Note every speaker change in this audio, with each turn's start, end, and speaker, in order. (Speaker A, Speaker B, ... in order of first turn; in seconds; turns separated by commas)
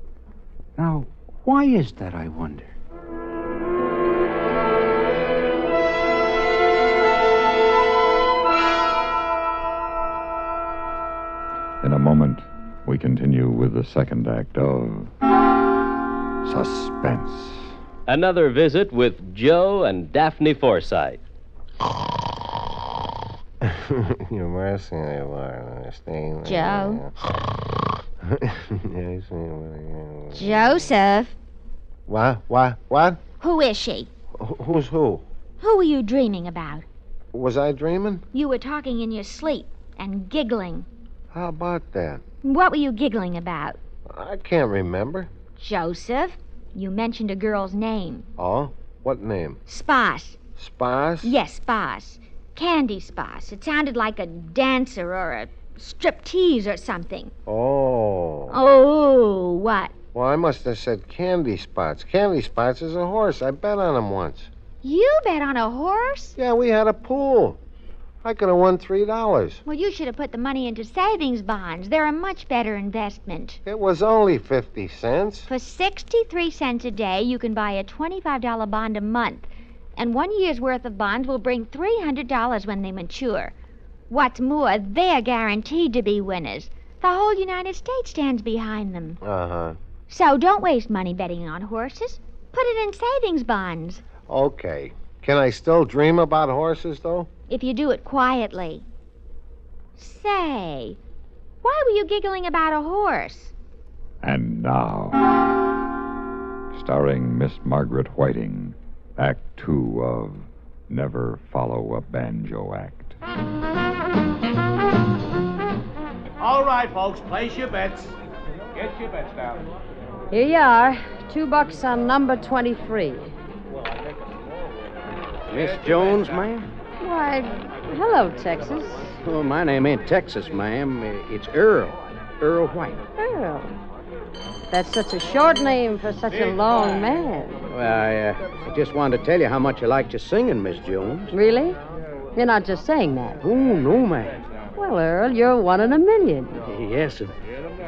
Speaker A: 0.8-2.7, Speaker B: 11.8-15.1, Speaker B: 16.4-17.7, Speaker C: 18.1-21.2, Speaker D: 23.6-27.1, Speaker E: 26.4-27.0, Speaker D: 28.2-30.5, Speaker E: 30.3-31.3, Speaker D: 32.1-33.2, Speaker E: 33.4-34.1, Speaker D: 34.3-35.2, Speaker E: 35.6-36.8, Speaker D: 37.3-38.2, Speaker E: 38.3-40.9, Speaker D: 41.3-42.2, Speaker E: 42.4-43.8, Speaker D: 44.1-45.3, Speaker E: 45.5-48.3, Speaker D: 48.4-49.6, Speaker E: 49.6-50.4, Speaker D: 50.5-51.3, Speaker E: 51.2-57.3, Speaker D: 57.5-58.5, Speaker E: 58.5-59.9, Speaker D: 60.1-64.5, Speaker E: 64.8-66.3, Speaker D: 66.3-67.6, Speaker D: 68.2-69.6, Speaker E: 69.6-73.6, Speaker D: 73.6-75.5, Speaker E: 75.5-83.5, Speaker E: 84.1-89.2, Speaker D: 89.2-89.8, Speaker E: 90.1-94.0, Speaker D: 94.2-97.3, Speaker E: 97.5-98.8, Speaker E: 100.0-101.0, Speaker E: 101.6-103.5, Speaker B: 104.2-105.2, Speaker B: 106.7-113.2, Speaker F: 116.4-118.1, Speaker F: 118.7-119.7, Speaker G: 120.3-123.3, Speaker H: 125.5-126.7, Speaker F: 125.7-126.4, Speaker G: 127.0-129.2, Speaker H: 129.2-133.0, Speaker G: 133.2-133.7, Speaker G: 134.7-137.6, Speaker H: 137.7-141.3, Speaker G: 141.3-141.8, Speaker G: 142.3-143.4, Speaker H: 143.4-144.4, Speaker G: 144.8-146.6, Speaker H: 146.7-147.3